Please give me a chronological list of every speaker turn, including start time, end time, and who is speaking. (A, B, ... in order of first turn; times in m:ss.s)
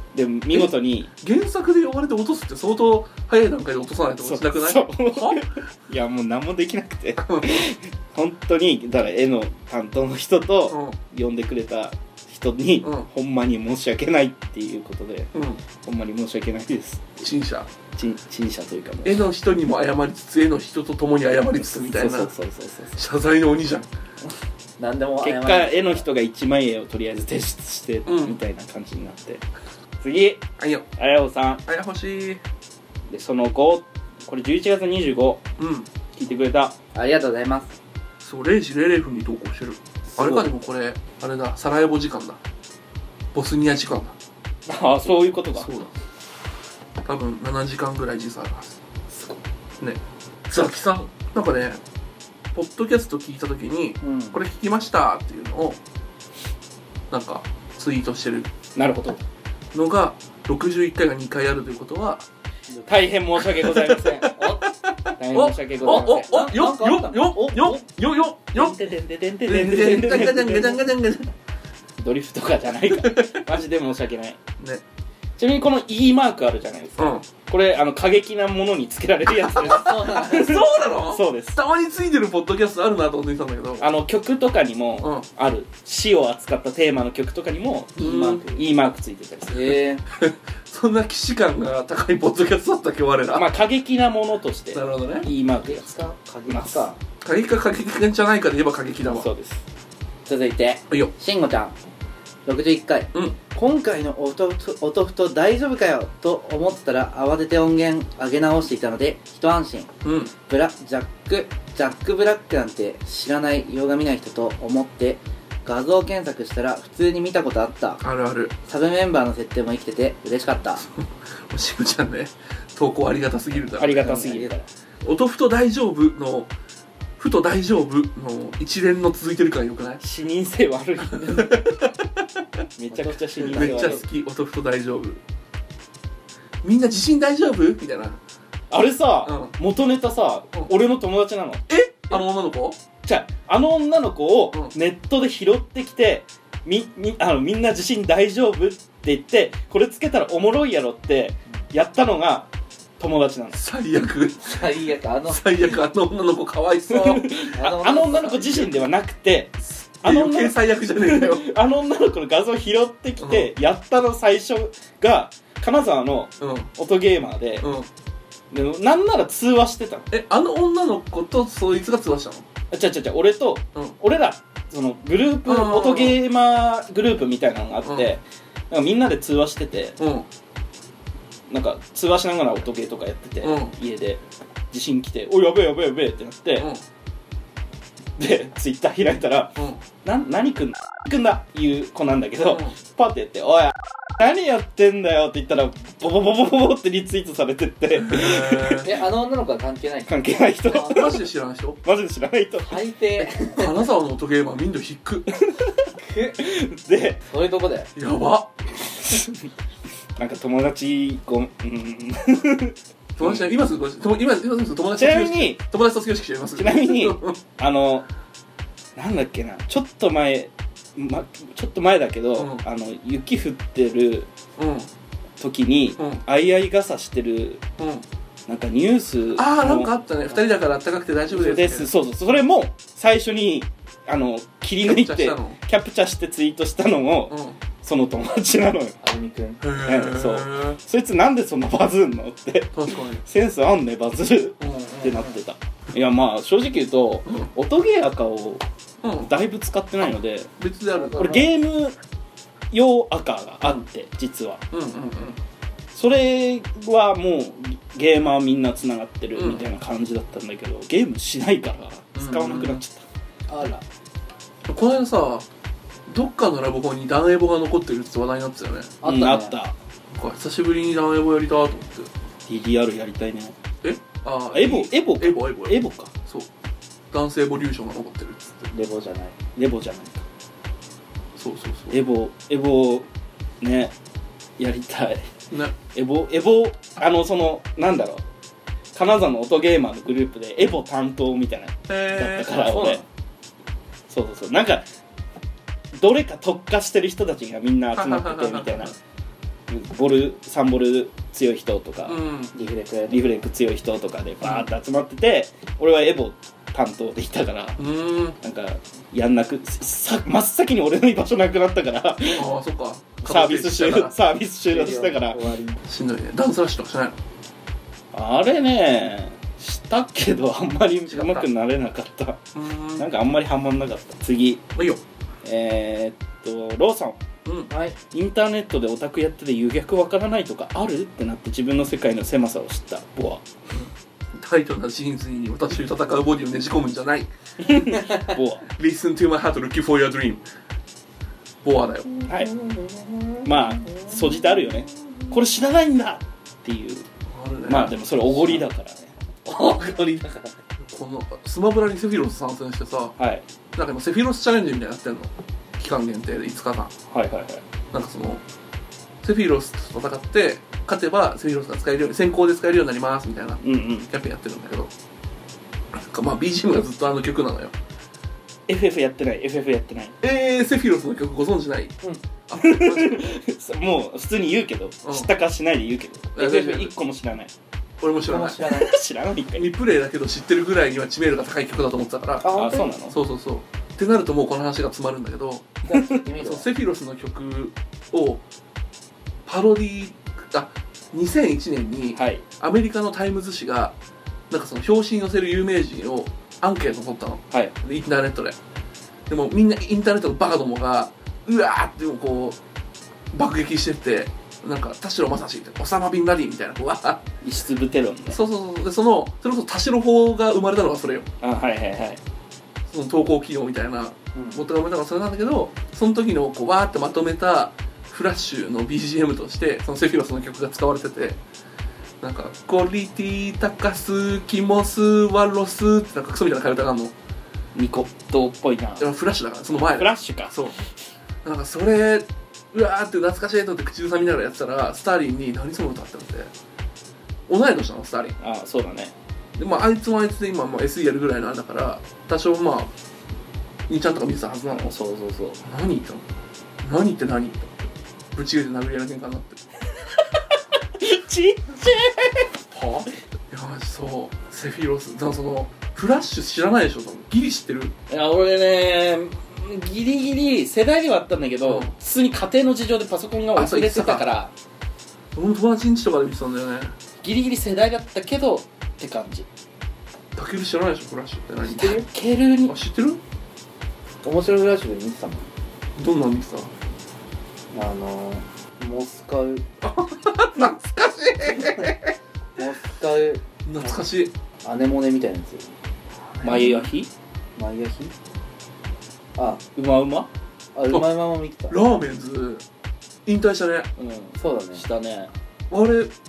0:00.1-0:01.1 A
0:01.2-0:05.4 B
0:04.2-0:15.3 A
0:07.2-0:07.6 B
0:10.7-0:11.0 B
0:15.3-0:15.6 B
0:15.8-0:17.2 A
0:17.2-0:17.7 B
0:18.0-0:19.2 A
0:19.0-0:22.3 B
0:21.6-0:23.0 A
0:23.0-0:23.9 B
0:24.8-0:26.0 C
0:25.2-0:29.4 A
0:28.0-0:28.4 B
0:30.0-0:31.6 A
0:30.6-0:30.9 B
0:31.6-0:32.4 B
0:33.1-0:35.4 A
0:35.6-0:35.9 B
0:36.1-0:36.7 A
0:36.9-0:37.8 C
0:38.2-0:42.4 B
0:43.3-0:44.1 B
0:44.7-0:45.7 A
0:45.5-0:45.9 B
0:47.0-0:48.8 B
0:49.8-0:51.8 B
0:52.5-0:55.8 B
0:54.0-0:54.4 C
0:57.1-0:58.5 B
0:58.8-0:59.2 A
0:59.7-1:02.2 B
1:02.7-1:03.1 C
1:02.9-1:04.6 A
1:03.4-1:08.8 B
1:04.4-1:04.6 C
1:05.2-1:06.3 A
1:06.2-1:07.8 C
1:08.5-1:10.9 A
1:09.4-1:11.3 B
1:12.0-1:14.4 A
1:12.9-1:13.5 B
1:14.6-1:14.8 B
1:15.4-1:21.6 A
1:17.0-1:17.3 B
1:19.6-1:20.5 C
1:20.1-1:23.9 B
1:23.8-1:29.8 A
1:25.0-1:25.2 B
1:28.0-1:28.4 B
1:28.0-1:28.6 C
1:29.5-1:30.0 C
1:30.1-1:33.5 B
1:33.3-1:36.9 A
1:34.7-1:35.3 B
1:35.6-1:37.0 C
1:37.2-1:39.3 B
1:39.0-1:39.6 A
1:40.2-1:41.8 C
1:42.4-1:49.9 C
1:50.0-1:50.3 B
1:50.5-1:58.0 C
1:58.0-1:58.5 B
1:58.6-2:00.9 C
2:01.5-2:04.1 B
2:03.8-2:04.6 A
2:03.8-2:04.6 C
2:05.0-2:06.5 B
2:07.2-2:10.0 B
2:10.0-2:11.8 A
2:11.3-2:11.9 B
2:12.8-2:14.0 A
2:12.9-2:14.0 C
2:13.5-2:15.2 B
2:16.6-2:18.2 B
2:18.7-2:22.2 A
2:19.2-2:19.5 B
2:21.7-2:22.8 B
2:23.0-2:33.6 A
2:33.5-2:34.6 B
2:34.4-2:35.4 C
2:35.2-2:37.3 B
2:36.9-2:47.7 A
2:37.5-2:38.7 C
2:40.0-2:41.5 B
2:43.2-2:43.5 B
2:46.4-2:46.7 B
2:47.6-2:47.9 B
2:48.5-2:50.1 A
2:50.1-2:52.4 B
2:52.7-3:00.0 A
2:55.4-2:56.2 B
2:57.8-2:58.1 B
3:00.0-3:00.3 B
3:01.5-3:06.7 A
3:03.4-3:03.7 B
3:08.2-3:18.9 A
3:09.6-3:09.8 B
3:12.5-3:12.7 B
3:18.0-3:18.9 B
3:18.8-3:21.0 C
3:20.1-3:21.3 A
3:20.7-3:21.8 B
3:21.8-3:23.2 A
3:22.6-3:23.8 C
3:23.4-3:25.3 B
3:25.3-3:27.2 A
3:26.0-3:26.5 C
3:27.3-3:27.9 C
3:28.0-3:28.6 B
3:29.0-3:29.4 A
3:30.2-3:33.5 A
3:33.2-3:37.4 B
3:35.0-3:35.6 A
3:36.6-3:38.0 A
3:39.0-3:44.3 A
3:42.4-3:42.6 B
3:44.6-3:44.9 B
3:45.4-3:47.6 A
3:47.8-3:48.0 B
3:48.5-3:49.9 A
3:49.3-3:51.9 B
3:51.3-3:59.0 A
3:54.8-3:55.6 B
3:57.3-3:57.6 B
3:59.0-3:59.6 C
3:59.6-4:00.8 B
3:59.8-4:08.6 A
4:02.7-4:03.2 B
4:04.6-4:05.3 B
4:09.0-4:09.3 B
4:09.2-4:10.5 A
4:10.6-4:11.4 B
4:10.9-4:11.5 C
4:11.2-4:12.0 A
4:12.7-4:14.6 A
4:14.7-4:15.4 B
4:15.9-4:23.0 A
4:19.3-4:19.6 B
4:22.1-4:22.8 B
4:23.5-4:23.8 C
4:24.7-4:25.4 B
4:26.1-4:29.0 B
4:29.0-4:29.5 C
4:29.0-4:29.7 A
4:30.1-4:32.1 B
4:32.5-4:33.5 A
4:33.8-4:36.5 B
4:34.5-4:36.1 A
4:37.1-4:38.7 B
4:38.7-4:39.4 C
4:39.6-4:40.2 A
4:41.4-4:42.0 B
4:41.9-4:43.1 A
4:43.6-4:43.9 A
4:44.6-4:45.3 A
4:45.9-4:48.2 A
4:48.9-4:53.0 A
4:51.9-4:52.6 B
4:52.5-4:53.0 C
4:54.1-4:54.8 A
4:55.9-4:58.9 A
4:57.9-4:58.9 B
4:59.7-5:02.2 A
5:02.0-5:02.5 B
5:02.5-5:03.3 C
5:03.1-5:07.8 A
5:04.4-5:04.7 B
5:07.8-5:08.4 B
5:08.4-5:12.5 A
5:12.3-5:14.1 B
5:13.2-5:15.4 A
5:14.7-5:15.8 C
5:15.9-5:17.2 B
5:18.1-5:22.4 A
5:21.1-5:21.5 B
5:22.5-5:23.1 B
5:23.0-5:24.6 A
5:24.8-5:25.0 B
5:25.4-5:27.2 A
5:27.4-5:27.7 B
5:27.7-5:28.0 C
5:28.1-5:33.4 A
5:33.7-5:38.1 B
5:37.6-5:38.7 A
5:38.7-5:40.4 B
5:41.6-5:42.1 B
5:42.3-5:42.5 A
5:42.4-5:44.1 C
5:43.4-5:47.0 A
5:47.3-5:48.6 B
5:47.7-5:49.1 A
5:49.7-5:50.1 A
5:50.9-5:53.2 B
5:53.2-5:53.4 A
5:53.7-5:56.9 B
5:57.1-5:57.6 A
5:57.9-5:58.4 B
5:59.2-6:04.9 B
6:03.6-6:04.1 A
6:05.9-6:07.7 B
6:08.7-6:10.2 A
6:10.2-6:12.0 B
6:12.5-6:13.4 B
6:12.5-6:17.5 A
6:15.0-6:15.3 B
6:16.4-6:16.9 B
6:18.0-6:18.6 B
6:18.3-6:18.9 C
6:18.6-6:19.7 A
6:19.5-6:25.8 B
6:22.4-6:22.9 C
6:22.5-6:23.2 A
6:25.9-6:26.7 C
6:26.4-6:28.4 B
6:29.4-6:34.0 B
6:32.1-6:32.4 A
6:34.5-6:38.6 B
6:39.3-6:42.6 B
6:43.3-6:47.2 B
6:47.4-6:48.4 A
6:48.3-6:51.3 B
6:51.4-6:52.2 A
6:52.9-7:01.4 B
7:02.2-7:07.1 B
7:07.7-7:09.1 A
7:09.0-7:10.8 B
7:09.9-7:10.6 A
7:11.4-7:16.5 B
7:17.5-7:18.4 B
7:18.4-7:19.1 A
7:19.6-7:22.9 B
7:23.9-7:24.9 B
7:24.7-7:25.6 A
7:25.6-7:26.2 B
7:26.8-7:29.6 B
7:30.1-7:32.5 A
7:32.7-7:37.9 B
7:38.1-7:44.5 A
7:41.6-7:41.9 B
7:43.5-7:44.2 B
7:45.3-7:46.9 B
7:47.2-7:49.4 A
7:50.3-7:52.0 B
7:51.7-7:52.8 A
7:52.7-7:53.2 B
7:54.2-7:55.4 C
7:56.0-7:56.7 B
7:57.7-7:59.6 C
7:59.8-8:02.1 B
8:01.6-8:01.9 C
8:02.6-8:03.4 C
8:03.6-8:04.3 B
8:04.6-8:05.7 C
8:06.4-8:06.8 C
8:06.4-8:07.1 A
8:07.6-8:08.1 C
8:09.4-8:09.6 C
8:09.8-8:10.3 A
8:10.7-8:11.8 C
8:11.7-8:12.6 B
8:13.2-8:13.9 B
8:14.0-8:15.3 A
8:14.4-8:14.8 C
8:15.7-8:16.1 B